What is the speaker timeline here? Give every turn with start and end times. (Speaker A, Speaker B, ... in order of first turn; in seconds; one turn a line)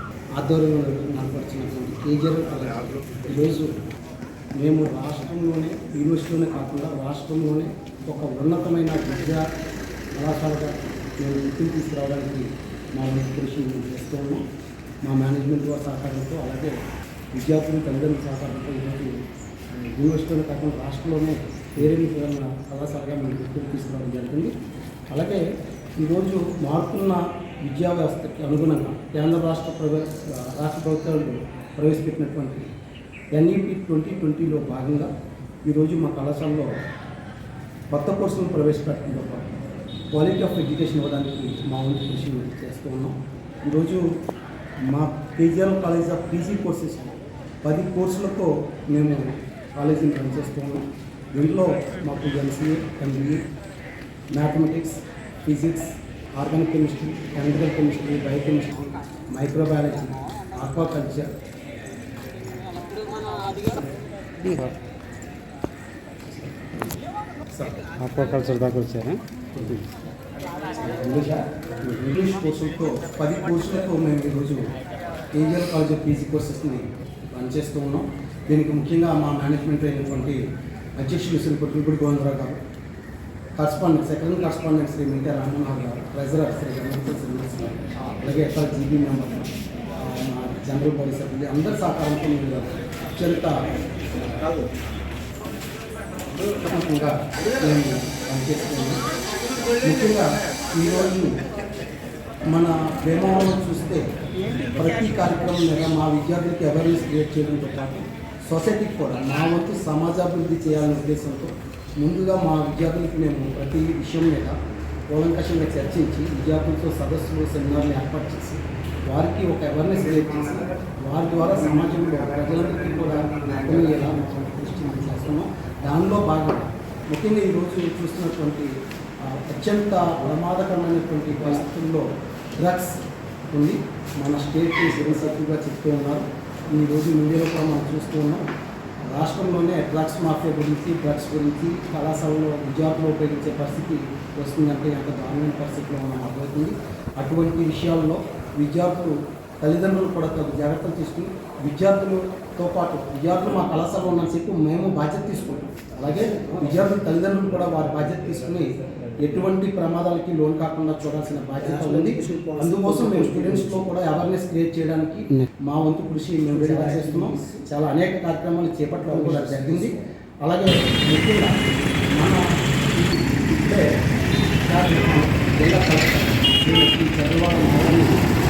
Speaker A: 0.4-3.8
Speaker A: 4.6-9.4
Speaker A: 10.2-14.4
Speaker A: 15.0-16.8
Speaker A: 17.4-19.1
Speaker A: 19.8-24.5
Speaker A: 25.1-25.4
Speaker A: 26.0-32.7
Speaker A: 33.3-35.1
Speaker A: 35.7-36.8
Speaker A: 37.9-39.6
Speaker A: 40.1-44.1
Speaker A: 44.9-53.4
Speaker A: 54.4-61.3
Speaker B: 64.4-64.8
Speaker A: 67.5-67.9
Speaker B: 68.0-69.8
Speaker B: 70.8-71.4
Speaker A: 70.9-74.7
Speaker A: 75.3-80.4
Speaker A: 81.0-82.6
Speaker A: 83.6-93.6
Speaker A: 94.1-94.6
Speaker A: 96.5-99.0
Speaker A: 99.8-101.4
Speaker A: 102.5-114.6
Speaker A: 115.1-128.7
Speaker A: 129.2-132.1
Speaker A: 132.6-133.0
Speaker A: 133.5-138.5
Speaker A: 139.1-169.9
Speaker B: 161.6-163.8
Speaker B: 166.5-167.5
Speaker B: 169.2-169.9
Speaker A: 170.4-171.6
Speaker A: 172.2-173.9
Speaker A: 174.6-178.2